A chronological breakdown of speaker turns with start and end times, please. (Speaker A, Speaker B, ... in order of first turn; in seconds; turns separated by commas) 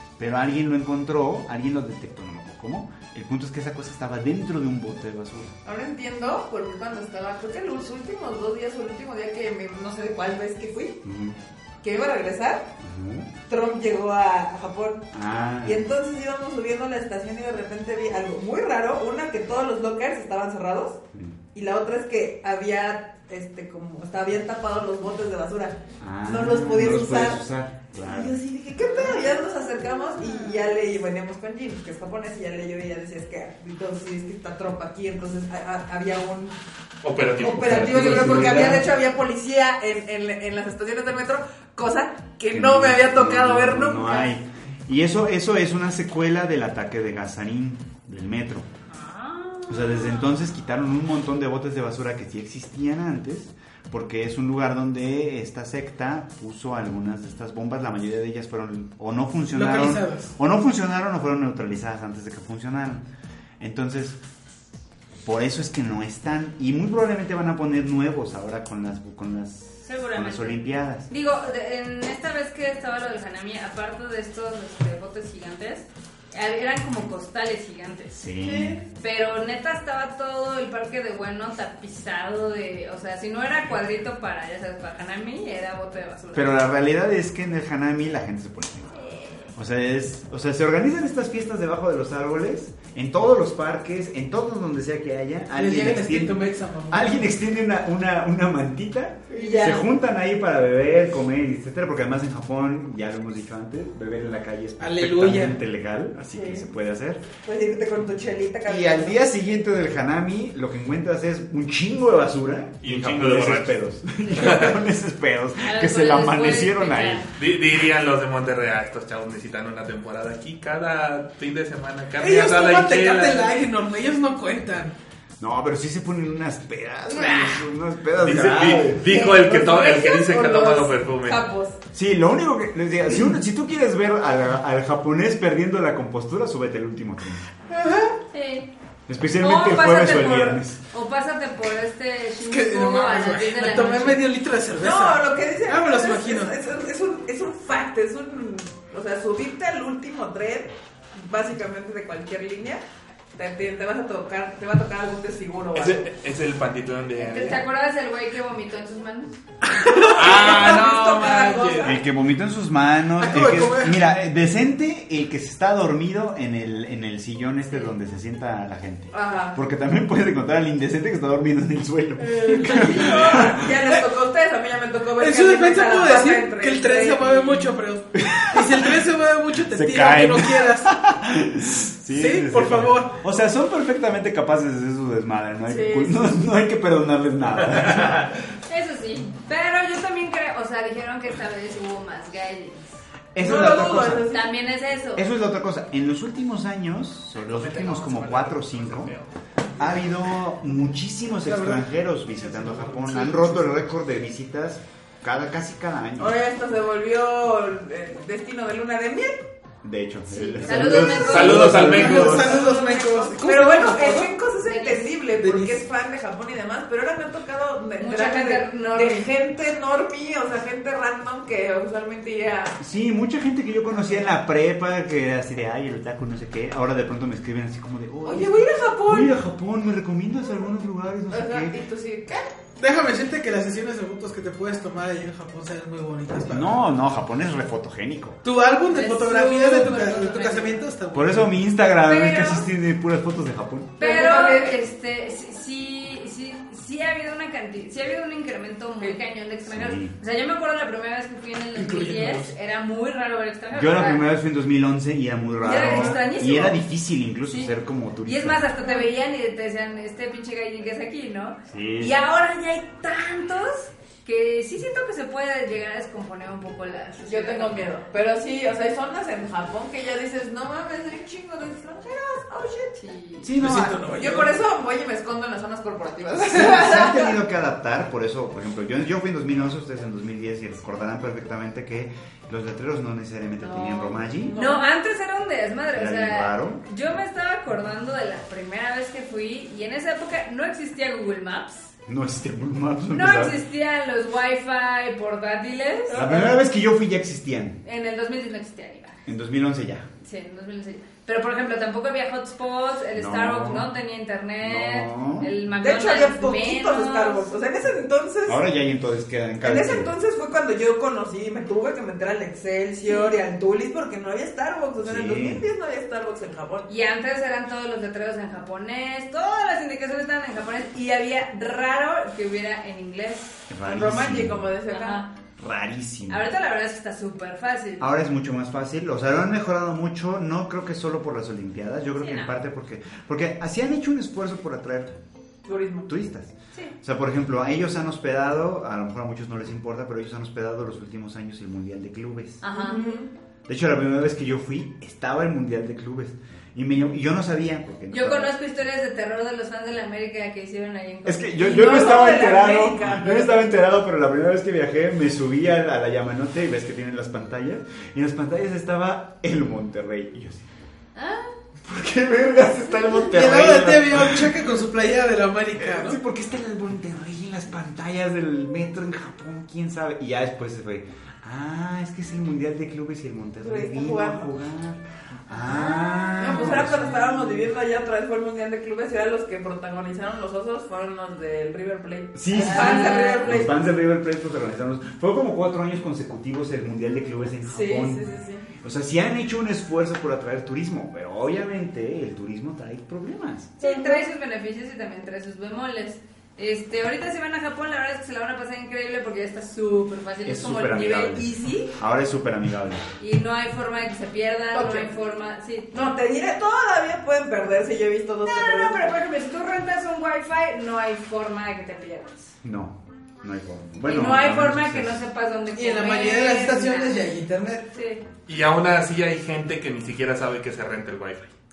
Speaker A: 0.2-5.6, Speaker B: 5.7-11.0, Speaker A: 11.0-11.4, Speaker B: 11.8-12.7, Speaker A: 12.8-13.3, Speaker B: 13.5-15.1, Speaker A: 15.1-15.8, Speaker B: 15.6-21.0, Speaker B: 21.5-27.4, Speaker A: 26.0-28.4, Speaker B: 28.0-36.5, Speaker C: 28.9-30.7, Speaker D: 37.0-38.9, Speaker B: 37.4-44.3, Speaker A: 37.4-38.9, Speaker A: 42.5-48.7, Speaker C: 48.9-50.3, Speaker A: 49.7-63.0, Speaker E: 59.5-60.3, Speaker A: 63.6-64.2, Speaker A: 65.2-71.1, Speaker C: 69.8-78.2, Speaker A: 78.1-78.8, Speaker E: 78.4-78.8, Speaker C: 79.0-86.6, Speaker A: 86.3-89.0, Speaker C: 89.0-89.5, Speaker A: 89.5-107.2, Speaker E: 95.5-97.2, Speaker B: 99.3-99.8, Speaker C: 99.3-99.8, Speaker E: 104.8-105.6, Speaker B: 106.3-106.7, Speaker B: 107.4-109.2, Speaker A: 108.7-117.3, Speaker D: 112.8-113.8, Speaker C: 114.2-114.6, Speaker D: 114.3-114.8, Speaker C: 115.6-117.3, Speaker D: 117.4-123.7, Speaker E: 122.2-125.0, Speaker A: 125.4-129.1, Speaker D: 128.2-131.5, Speaker B: 129.0-131.8, Speaker A: 131.9-137.4, Speaker E: 137.7-138.2, Speaker C: 138.3-138.7, Speaker A: 139.1-140.8, Speaker C: 139.4-144.2, Speaker E: 142.5-146.5, Speaker B: 144.8-152.8, Speaker B: 153.3-156.1, Speaker D: 155.8-157.6, Speaker C: 157.2-159.4, Speaker E: 159.6-160.2, Speaker B: 159.7-162.0, Speaker D: 160.2-162.0, Speaker A: 161.8-173.7, Speaker E: 163.2-164.0, Speaker B: 169.1-169.6, Speaker E: 172.2-173.4, Speaker B: 172.5-177.8, Speaker E: 175.2-181.0, Speaker A: 178.2-179.0, Speaker A: 179.6-188.4, Speaker E: 182.1-183.2, Speaker B: 185.7-186.4, Speaker C: 188.7-193.0, Speaker A: 193.3-194.3, Speaker B: 193.4-194.5, Speaker C: 194.3-195.2, Speaker A: 195.2-199.1, Speaker D: 197.4-199.3, Speaker A: 199.8-206.4, Speaker E: 201.4-201.8, Speaker E: 202.4-203.5, Speaker B: 206.2-209.4, Speaker A: 209.8-212.7, Speaker C: 210.3-211.7, Speaker D: 211.0-212.4, Speaker E: 211.6-214.3, Speaker B: 212.1-222.8, Speaker C: 214.6-215.2, Speaker E: 215.3-215.8, Speaker C: 218.0-219.3, Speaker A: 222.8-231.8, Speaker B: 223.9-224.3, Speaker B: 228.2-229.4, Speaker B: 231.3-232.6, Speaker E: 232.8-236.7, Speaker A: 236.5-238.4, Speaker E: 238.4-241.5, Speaker C: 238.9-240.8, Speaker A: 241.1-243.9, Speaker C: 242.0-242.7, Speaker C: 244.0-254.2, Speaker B: 244.0-244.8, Speaker A: 249.7-250.2, Speaker D: 251.9-252.4, Speaker A: 253.7-258.6, Speaker C: 255.6-256.8, Speaker E: 255.8-256.1, Speaker C: 258.2-267.9, Speaker B: 258.8-259.1, Speaker A: 261.7-262.1, Speaker B: 267.2-273.0, Speaker C: 273.0-273.5, Speaker E: 273.5-274.6, Speaker A: 273.5-274.1, Speaker B: 274.1-277.4, Speaker A: 276.5-284.6, Speaker B: 283.6-284.9, Speaker C: 284.0-291.9, Speaker A: 285.9-286.8, Speaker A: 292.1-293.6, Speaker C: 293.1-296.2, Speaker B: 296.1-296.6, Speaker A: 296.1-297.8, Speaker C: 297.8-299.2, Speaker A: 299.3-300.1, Speaker C: 300.2-307.5, Speaker A: 303.1-303.9, Speaker A: 304.6-305.6, Speaker B: 305.7-308.6, Speaker A: 308.5-310.1, Speaker B: 309.6-316.9, Speaker C: 313.1-313.4, Speaker A: 315.0-315.7, Speaker C: 316.9-323.7, Speaker A: 323.7-324.7, Speaker B: 323.8-325.2, Speaker C: 324.9-325.3, Speaker A: 325.6-326.5, Speaker C: 326.3-328.1, Speaker A: 328.0-335.2, Speaker C: 332.2-332.6, Speaker B: 335.6-336.1, Speaker A: 336.1-342.6, Speaker C: 342.6-343.2, Speaker B: 342.7-343.3, Speaker A: 343.7-348.5, Speaker C: 348.1-351.9, Speaker A: 351.2-360.7, Speaker B: 351.6-353.7, Speaker C: 361.1-361.5, Speaker A: 361.8-364.6, Speaker C: 362.8-363.3, Speaker E: 363.3-366.2, Speaker A: 365.8-377.7, Speaker B: 373.6-374.5, Speaker C: 375.5-376.9, Speaker B: 376.4-383.7, Speaker A: 382.3-388.2, Speaker C: 382.5-383.5, Speaker B: 387.6-388.7, Speaker A: 388.8-393.8, Speaker B: 393.8-394.3, Speaker C: 393.8-401.9, Speaker A: 400.4-403.1, Speaker C: 403.2-406.0, Speaker B: 404.7-405.1, Speaker B: 405.9-409.1, Speaker C: 408.4-412.5, Speaker A: 412.6-415.2, Speaker C: 414.0-417.3, Speaker E: 415.7-417.9, Speaker C: 417.9-418.2, Speaker D: 418.5-421.5